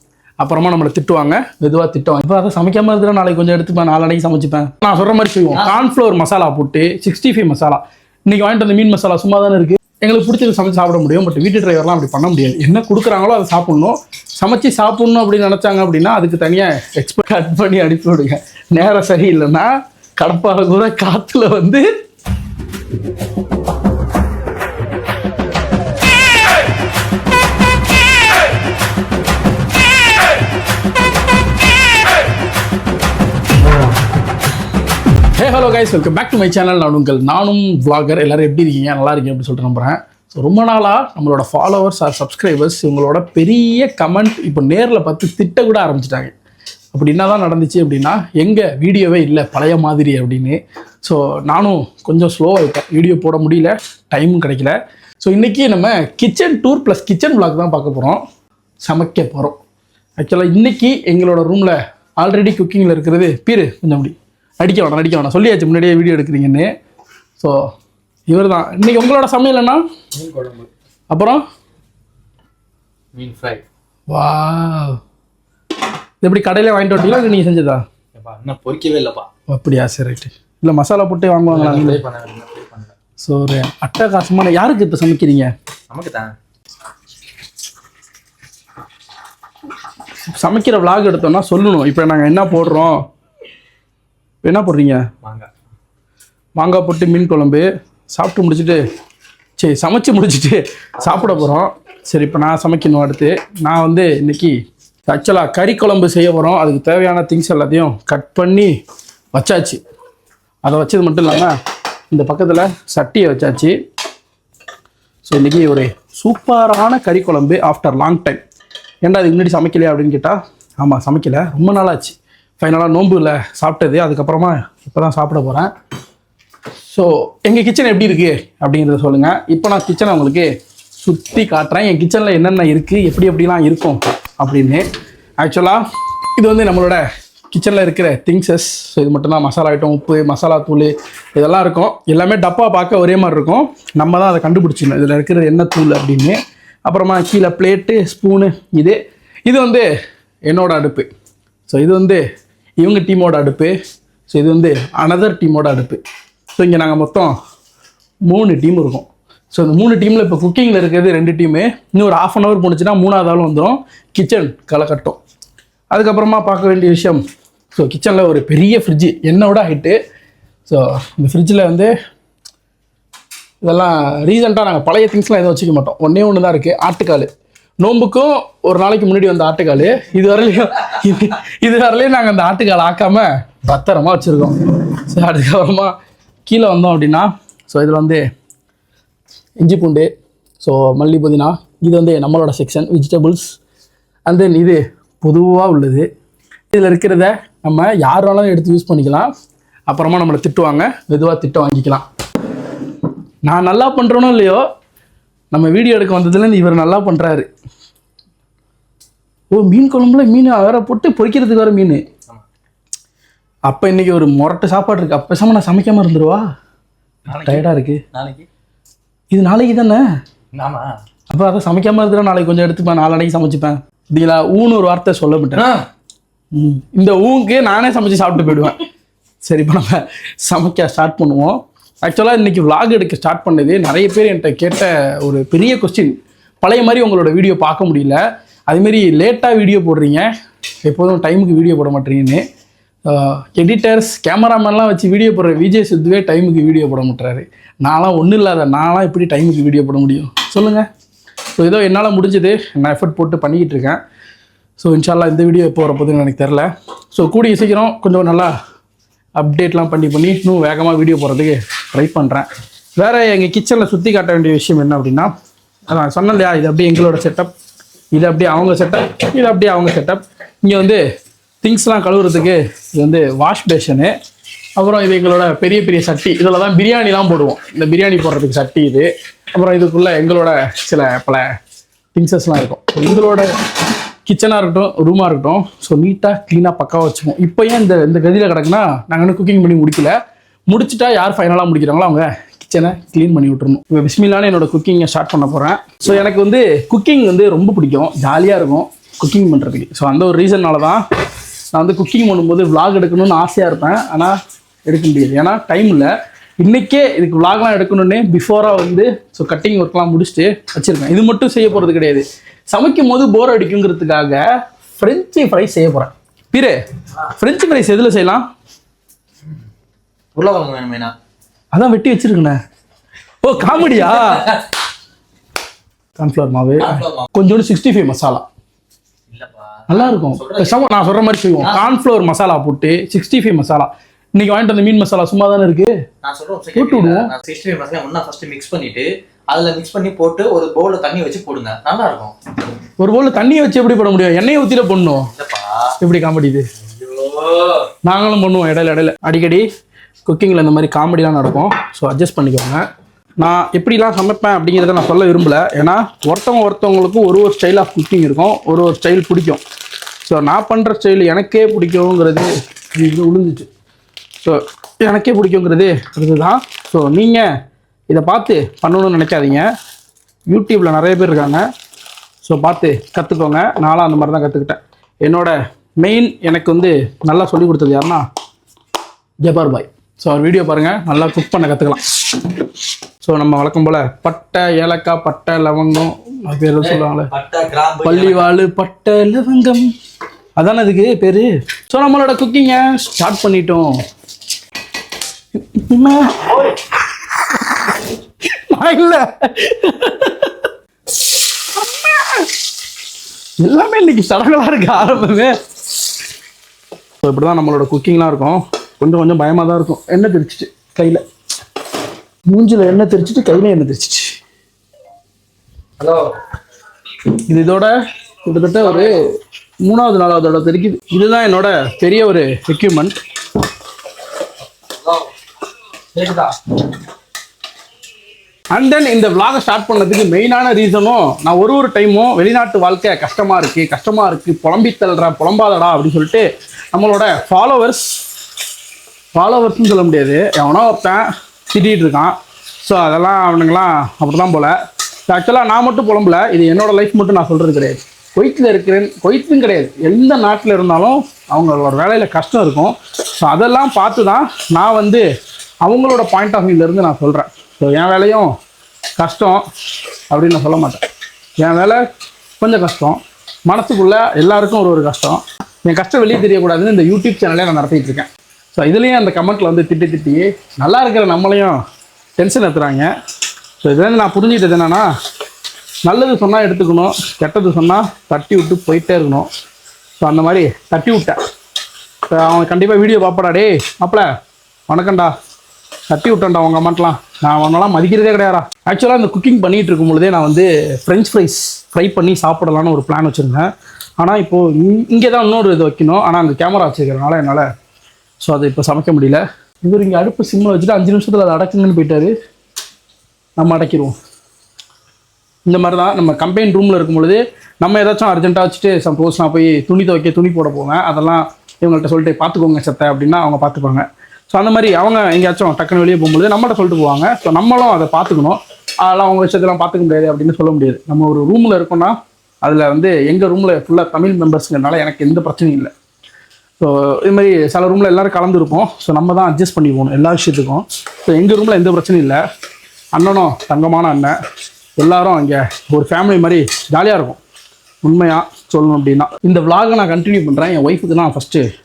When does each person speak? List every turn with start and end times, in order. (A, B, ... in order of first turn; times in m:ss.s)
0:00.4-0:21.9 A
0:05.5-0:05.8 B
0:35.4-0:46.3 A
0:46.9-0:58.2 A
0:58.8-0:59.6 A
1:00.2-1:06.7 A
1:08.3-1:09.8 A
1:10.2-1:10.7 B
1:11.1-1:11.4 A
1:13.1-1:13.6 B
1:14.1-1:15.0 A
1:16.2-1:17.8 A
1:18.2-1:19.3 B
1:19.5-1:22.0 A
1:21.5-1:22.9 B
1:23.2-1:25.5 A
1:25.9-1:26.3 B
1:30.3-1:33.0 A
1:34.4-1:35.0 A
1:35.2-1:35.5 B
1:36.6-1:38.8 A
1:39.6-1:44.5 A
1:41.0-1:41.6 B
1:45.1-1:48.7 A
1:49.3-1:49.8 A
1:50.6-1:51.5 A
1:52.1-1:53.7 A
1:55.3-1:58.4 A
1:59.0-2:05.7 A
2:06.9-2:10.5 A
2:11.0-2:14.8 A
2:15.4-2:15.8 A
2:16.4-2:29.9 A
2:30.5-2:31.1 A
2:31.7-2:32.2 A
2:32.8-2:33.8 A
2:34.3-2:36.0 A
2:36.6-2:37.3 A
2:38.3-2:45.2 A
2:45.9-2:47.2 A
2:47.8-2:50.0 A
2:50.7-2:51.9 A
2:53.6-2:57.3 A
2:57.8-3:05.9 A
3:06.4-3:08.2 A
3:09.6-3:10.1 A
3:10.6-3:13.6 A
3:14.3-3:16.1 A
3:16.7-3:19.3 A
3:19.9-3:22.0 A
3:23.4-3:24.6 A
3:25.5-3:27.5 A
3:29.5-3:32.0 A
3:33.7-3:36.4 A
3:37.3-3:38.4 B
3:37.4-3:38.0 A
3:39.3-3:40.0 A
3:40.5-3:40.9 B
3:41.3-3:45.6 A
3:45.5-3:45.8 B
3:46.5-3:48.8 A
3:49.4-4:00.3 A
4:00.8-4:02.4 A
4:03.0-4:10.9 A
4:11.6-4:14.0 A
4:14.8-4:18.5 A
4:19.4-4:22.5 A
4:23.0-4:25.3 A
4:25.9-4:27.5 A
4:28.1-4:31.0 A
4:31.6-4:34.1 A
4:34.8-4:41.5 A
4:42.1-4:43.5 A
4:44.3-4:50.1 A
4:50.7-5:01.0 A
5:01.7-5:04.4 A
5:04.9-5:14.4 A
5:15.0-5:16.8 A
5:17.3-5:18.4 A
5:20.3-5:21.1 B
5:21.7-5:22.6 A
5:23.4-5:24.6 A
5:23.6-5:24.6 B
5:26.2-5:28.4 A
5:26.8-5:27.3 B
5:29.3-5:31.9 B
5:29.9-5:35.9 A
5:36.2-5:42.3 B
5:36.8-5:37.3 A
5:43.0-5:45.3 A
5:45.2-5:45.9 B
5:46.0-5:46.7 A
5:46.8-5:47.9 B
5:48.0-5:49.6 A
5:50.2-5:52.8 A
5:53.4-5:59.6 A
6:00.2-6:03.7 A
6:04.4-6:07.4 A
6:08.1-6:09.6 A
6:10.5-6:11.6 A
6:12.4-6:18.2 A
6:19.4-6:22.5 A
6:23.2-6:27.3 A
6:26.8-6:28.5 B
6:28.0-6:29.9 A
6:30.6-6:33.9 A
6:35.6-6:40.7 A
6:41.2-6:42.5 A
6:43.6-6:45.5 A
6:47.2-6:51.2 A
6:52.5-6:54.4 A
6:56.0-6:56.4 B
6:57.3-6:57.9 A
6:58.4-6:59.2 A
6:59.8-7:03.2 A
7:05.0-7:05.3 B
7:06.1-7:06.5 B
7:08.7-7:18.2 A
7:19.3-7:24.8 A
7:25.3-7:35.2 A
7:35.8-7:38.5 A
7:39.2-7:39.6 A
7:40.3-7:41.0 A
7:41.6-7:42.0 A
7:42.6-7:51.8 A
7:52.4-7:53.1 A
7:53.8-7:55.1 A
7:56.0-7:59.5 A
8:00.2-8:01.4 A
8:02.3-8:04.3 A
8:04.9-8:05.3 A
8:06.1-8:17.6 A
8:18.4-8:22.3 A
8:23.6-8:24.2 A
8:25.6-8:45.9 A
8:46.8-8:52.4 A
8:53.1-8:54.4 A
8:55.0-8:57.4 A
8:58.0-9:01.6 A